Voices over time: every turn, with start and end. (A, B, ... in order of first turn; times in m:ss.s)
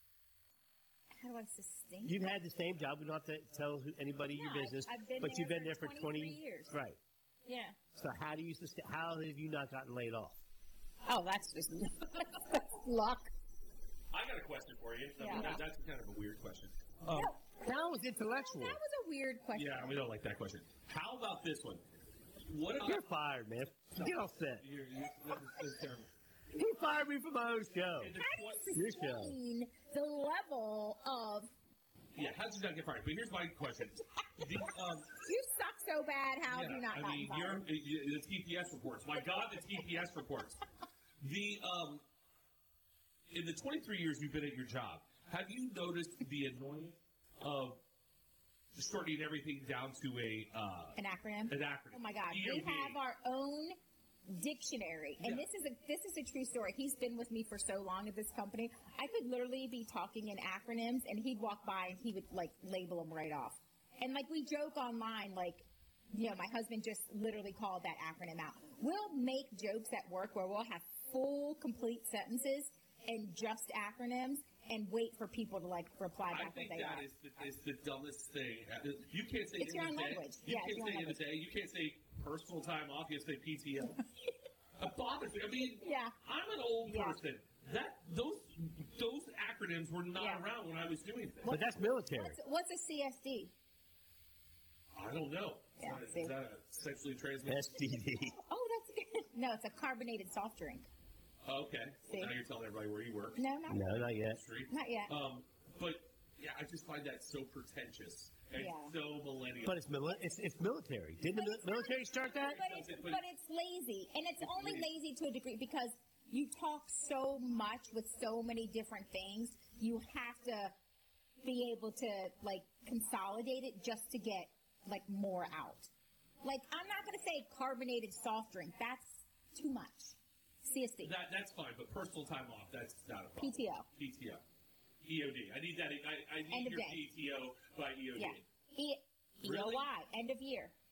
0:01.2-0:02.2 A
0:02.0-0:07.0 B
0:04.3-0:06.7 A
0:07.5-0:07.8 A
0:07.9-0:10.4 B
0:11.0-0:13.3 A
0:14.1-0:17.3 C
0:15.2-0:15.6 A
0:17.1-0:18.8 B
0:17.1-0:17.7 A
0:18.3-0:20.0 A
0:19.6-0:21.8 C
0:22.5-0:23.0 C
0:22.8-0:24.6 B
0:24.0-0:26.1 C
0:26.5-0:28.1 B
0:28.0-0:28.8 C
0:28.2-0:31.5 A
0:28.7-0:29.4 B
0:32.1-0:35.1 C
0:35.1-0:37.6 A
0:36.5-0:40.6 C
0:41.2-0:42.0 C
0:43.3-0:47.8 C
0:48.7-0:53.0 C
0:51.0-0:53.8 A
0:54.3-1:17.0 A
1:16.3-1:24.0 C
1:19.6-1:21.2 A
1:24.8-1:31.6 C
1:25.8-1:26.2 A
1:26.8-1:27.2 A
1:30.2-1:30.4 A
1:31.4-1:33.5 A
1:31.5-1:32.4 B
1:34.9-1:37.8 C
1:35.8-1:36.3 A
1:37.4-1:38.4 B
1:38.4-1:40.9 A
1:41.4-1:43.4 C
1:43.4-1:44.1 A
1:43.7-1:44.4 B
1:44.1-1:49.8 C
1:44.7-1:45.1 A
1:48.6-1:48.9 A
1:49.6-1:52.6 B
1:51.3-2:00.7 A
1:52.4-1:53.2 C
1:54.4-1:54.9 C
2:01.4-2:05.9 A
2:06.4-2:11.1 A
2:11.0-2:14.4 C
2:13.4-2:13.9 A
2:15.0-2:18.4 C
2:16.5-2:17.0 A
2:18.2-2:20.7 A
2:19.4-2:19.9 C